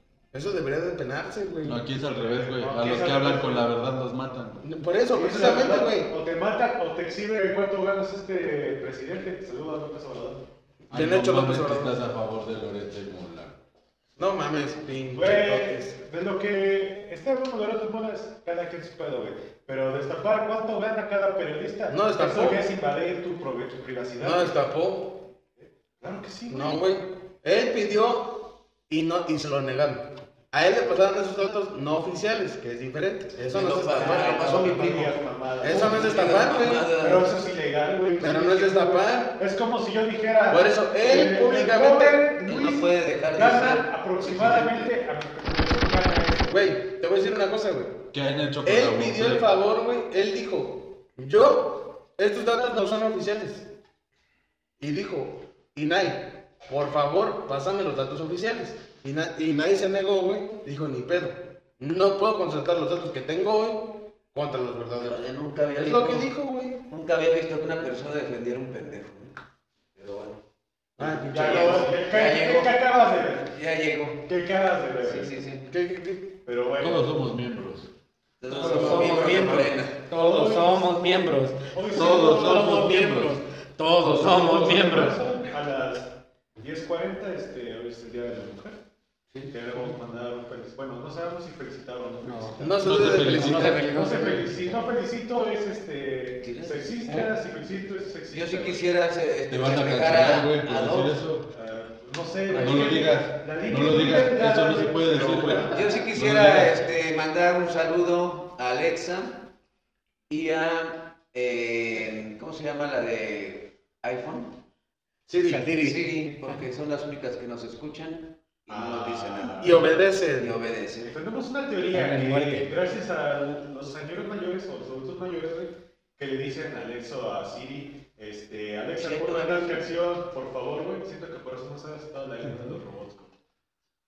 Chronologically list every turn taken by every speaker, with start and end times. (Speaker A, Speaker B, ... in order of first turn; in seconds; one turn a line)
Speaker A: 0.3-1.8
Speaker B: 1.6-4.6
Speaker C: 2.1-3.7
Speaker A: 4.6-6.1
Speaker C: 5.1-10.4
Speaker A: 10.9-11.9
Speaker B: 10.9-13.6
Speaker A: 14.2-16.0
Speaker C: 15.1-24.6
Speaker A: 21.9-22.6
Speaker A: 24.2-25.2
Speaker C: 25.6-26.9
Speaker A: 26.5-34.7
Speaker D: 33.5-37.3
Speaker C: 33.5-46.7
Speaker A: 35.6-36.9
Speaker A: 38.2-39.3
Speaker A: 40.5-42.2
Speaker D: 42.4-44.9
Speaker A: 46.5-48.0
Speaker B: 48.1-49.5
Speaker A: 48.6-53.7
Speaker A: 54.8-65.2
Speaker D: 65.0-66.3
Speaker A: 65.7-66.8
Speaker D: 66.9-69.3
Speaker D: 70.0-70.4
Speaker A: 71.0-71.8
Speaker D: 71.0-72.8
Speaker C: 71.2-73.5
Speaker D: 73.5-74.2
Speaker C: 74.2-75.3
Speaker D: 75.0-75.6
Speaker A: 75.7-76.3
Speaker C: 76.4-77.1
Speaker B: 76.8-77.9
Speaker D: 78.4-79.9
Speaker C: 78.5-80.9
Speaker E: 78.5-85.2
Speaker C: 81.7-83.1
Speaker B: 81.9-83.3
Speaker C: 84.0-88.8
Speaker C: 89.5-98.8
Speaker E: 92.2-94.8
Speaker A: 92.6-93.8
Speaker B: 92.8-93.8
Speaker D: 96.4-96.9
Speaker D: 98.3-101.2
Speaker B: 99.5-101.5
Speaker C: 101.5-105.8
Speaker D: 102.5-103.0
Speaker B: 102.5-106.8
Speaker A: 105.1-105.7
Speaker D: 105.7-109.5
Speaker D: 110.3-114.5
Speaker A: 115.3-115.6
Speaker E: 115.4-116.0
Speaker D: 115.7-121.1
Speaker C: 118.7-120.0
Speaker A: 119.6-120.5
Speaker C: 121.0-133.3
Speaker E: 121.9-122.7
Speaker D: 128.9-129.8
Speaker E: 132.5-132.8